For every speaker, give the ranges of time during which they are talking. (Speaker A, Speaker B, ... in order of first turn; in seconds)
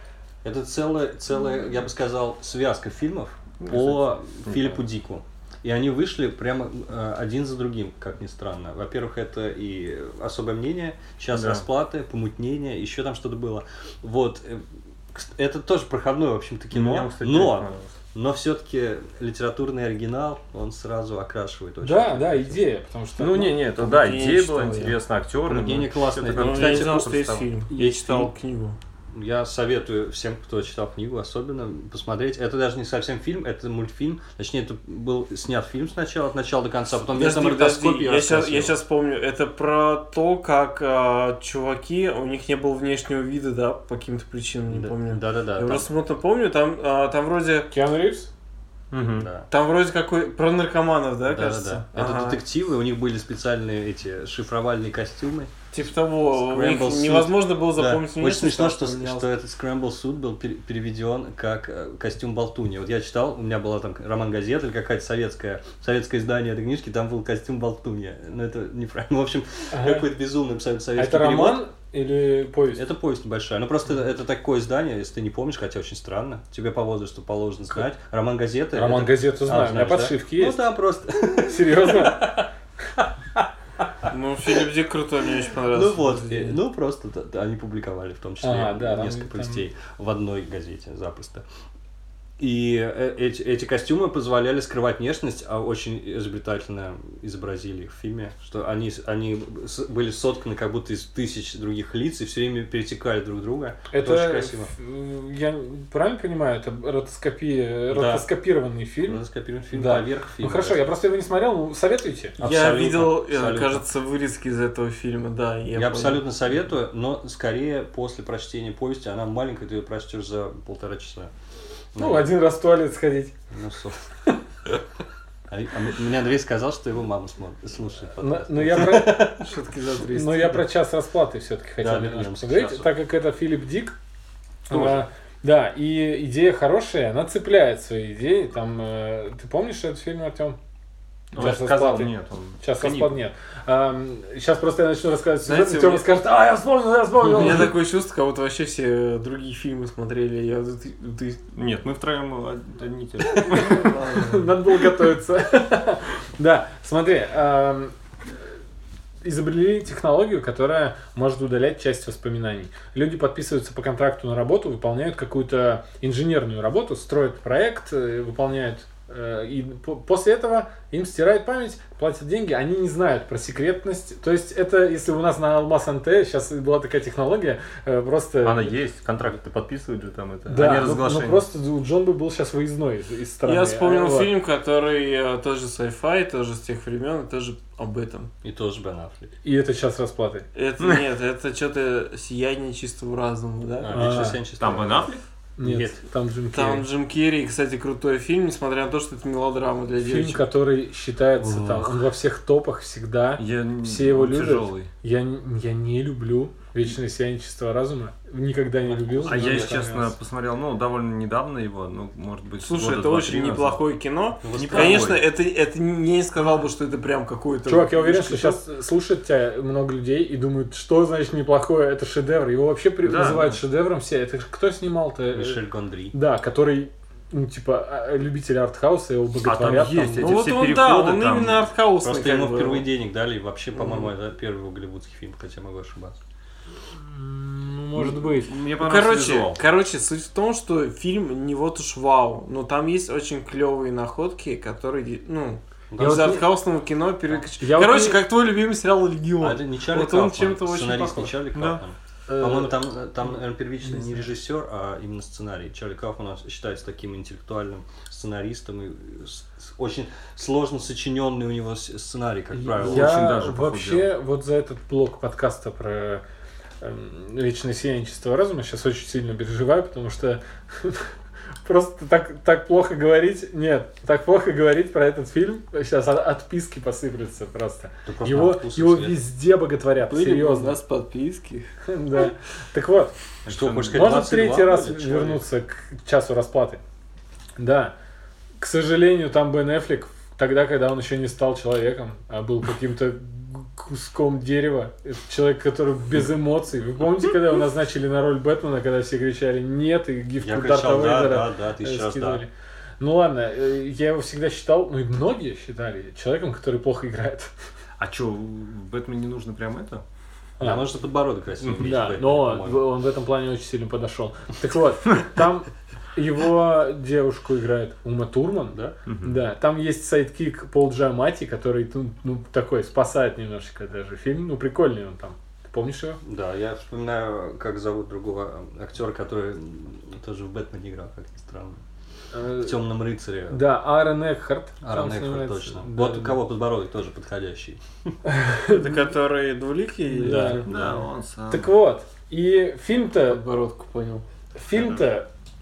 Speaker A: 0.4-22.6, 25.5-28.3, 29.1-38.8, 44.7-45.9, 49.1-49.5, 51.2-55.5, 56.3-71.6, 72.7-82.5, 83.0-83.4, 85.7-91.4, 92.4-104.7, 107.9-108.2, 109.0-110.8, 112.4-113.8, 115.7-121.3, 121.9-122.3, 123.5-124.0, 125.5-129.5, 131.8-132.9, 134.7-135.0, 188.4-189.3, 193.8-196.0, 201.4-202.0, 208.9-209.9, 214.4-215.2, 225.3-226.2, 232.0-236.1, 245.9-246.3, 249.4-263.2, 278.1-279.2, 283.4-285.4, 300.4-302.4, 310.6-312.9, 326.2-331.8, 332.5-333.6, 334.8-338.1, 340.3-341.0
Speaker B: 3.6-4.8, 11.3-11.6, 16.7-17.9, 23.2-27.5, 48.9-49.3, 141.3-143.1, 151.5-153.9, 178.4-181.5, 194.6-195.2, 203.4-204.9, 209.2-213.8, 214.5-215.2, 223.0-223.6, 229.4-231.7, 237.9-239.6, 262.8-264.1, 283.5-284.0, 308.0-310.0, 311.6-311.9, 319.1-319.4, 340.6-341.7, 344.7-345.0
Speaker C: 21.8-23.6, 47.7-48.3, 69.7-70.0, 71.0-72.8, 78.7-80.7, 81.4-82.5, 88.4-89.6, 103.9-109.2, 109.7-112.3, 122.0-123.3, 128.2-129.4, 130.1-133.9, 134.7-140.6, 141.3-147.8, 153.4-157.9, 159.2-178.7, 180.5-184.3, 189.4-190.4, 193.9-194.4, 195.6-196.8, 200.0-210.1, 217.7-225.6, 226.1-230.4, 236.9-238.6, 246.0-246.4, 247.6-248.2, 252.3-252.7, 253.9-254.2, 262.5-266.2, 266.8-271.1, 271.6-280.8, 281.9-283.1, 283.9-286.8, 287.6-287.9, 288.6-302.5, 303.0-307.5, 310.6-310.9, 311.8-326.2, 332.3-332.8, 333.5-336.4, 338.3-339.0, 340.1-340.7, 341.5-343.4, 344.5-345.3
Speaker D: 23.8-24.9, 26.3-28.8, 37.1-47.7, 49.5-52.4, 55.7-59.3, 84.1-86.6, 112.4-116.2, 129.3-130.6, 145.4-146.1, 147.2-151.4, 153.6-154.5, 183.4-188.3, 190.5-194.2, 196.5-200.4, 212.6-218.6, 230.2-232.8, 233.8-234.1, 238.8-251.8, 280.0-281.7, 338.7-340.7, 343.3-344.2